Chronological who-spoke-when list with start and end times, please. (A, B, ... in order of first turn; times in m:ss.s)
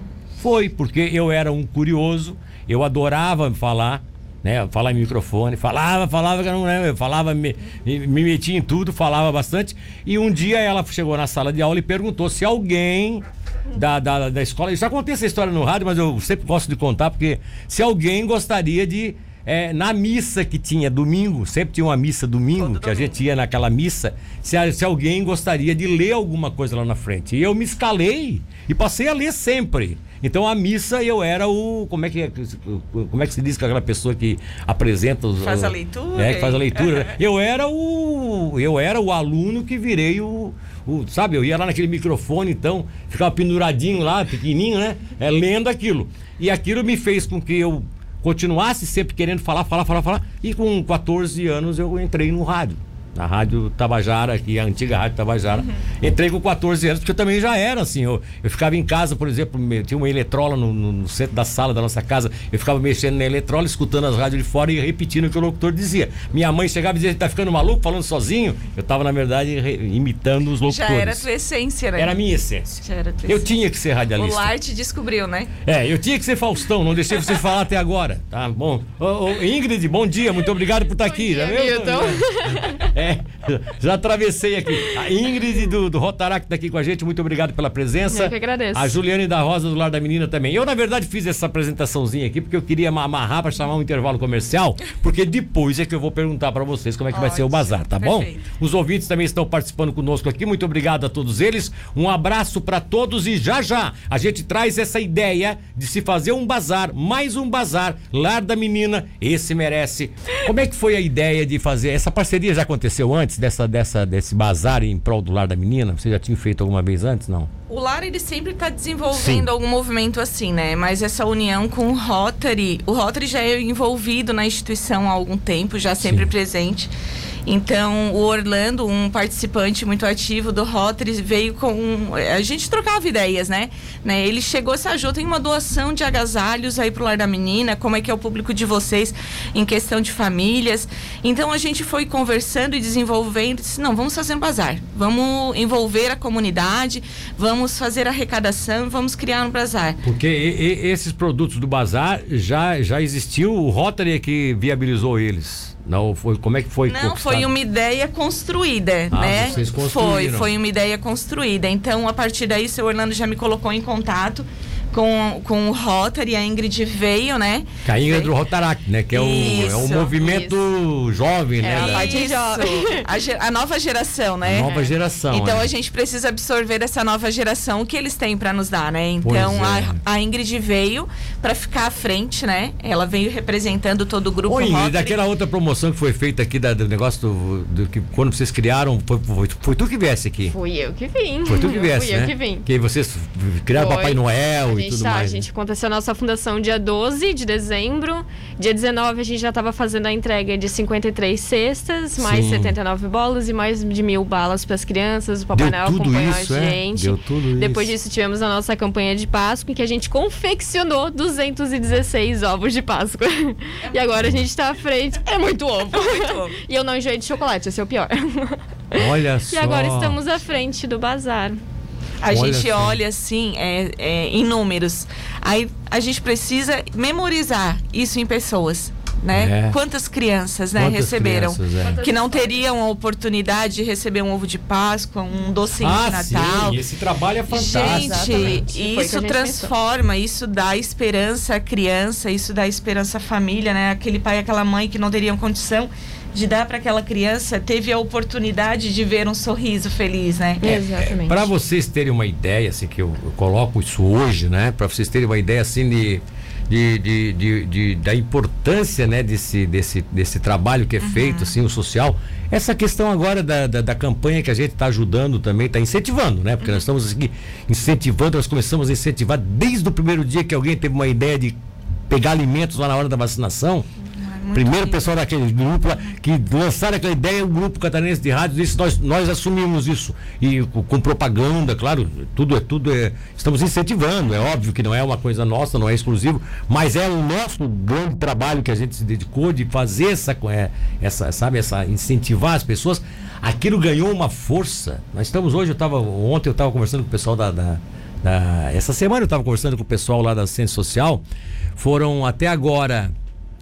0:00.4-1:11.3 A
0:22.6-0:23.2 B
0:35.4-0:37.1 B
1:10.6-1:12.2 B
1:12.0-1:14.5 A
1:12.8-1:13.5 B
1:14.2-1:15.5 B
1:15.6-1:57.5 A
1:21.0-1:22.9 C
1:28.1-1:29.0 C
1:37.1-1:38.5 B
1:57.7-2:06.9 B
1:59.1-1:59.5 A
2:07.4-2:30.0 B
2:30.0-2:37.5 A
2:36.9-2:48.3 B
2:39.1-2:40.5 A
2:47.8-2:52.1 A
2:49.1-2:50.2 B
2:50.2-2:50.5 C
2:51.6-2:53.1 C
2:51.8-3:05.2 B
2:54.4-2:55.7 A
2:59.2-3:00.0 A
3:04.5-3:10.6 A
3:10.5-3:12.7 C
3:11.5-3:15.5 A
3:13.7-3:41.6 C
3:22.2-3:22.8 A
3:25.6-3:27.9 A
3:33.8-3:34.4 B
3:35.9-3:36.6 B
3:38.9-3:40.2 A
3:42.2-3:56.8 B
3:42.3-3:43.0 A
3:49.3-3:49.8 A
3:50.8-3:52.0 A
3:51.8-3:52.6 C
3:55.8-3:58.6 A
3:57.5-4:10.8 B
3:57.7-3:59.7 C
4:10.6-4:11.5 C
4:10.7-4:33.9 A
4:21.0-4:21.6 B
4:34.2-4:35.1 B
4:34.5-5:01.2 A
5:01.8-5:03.1 A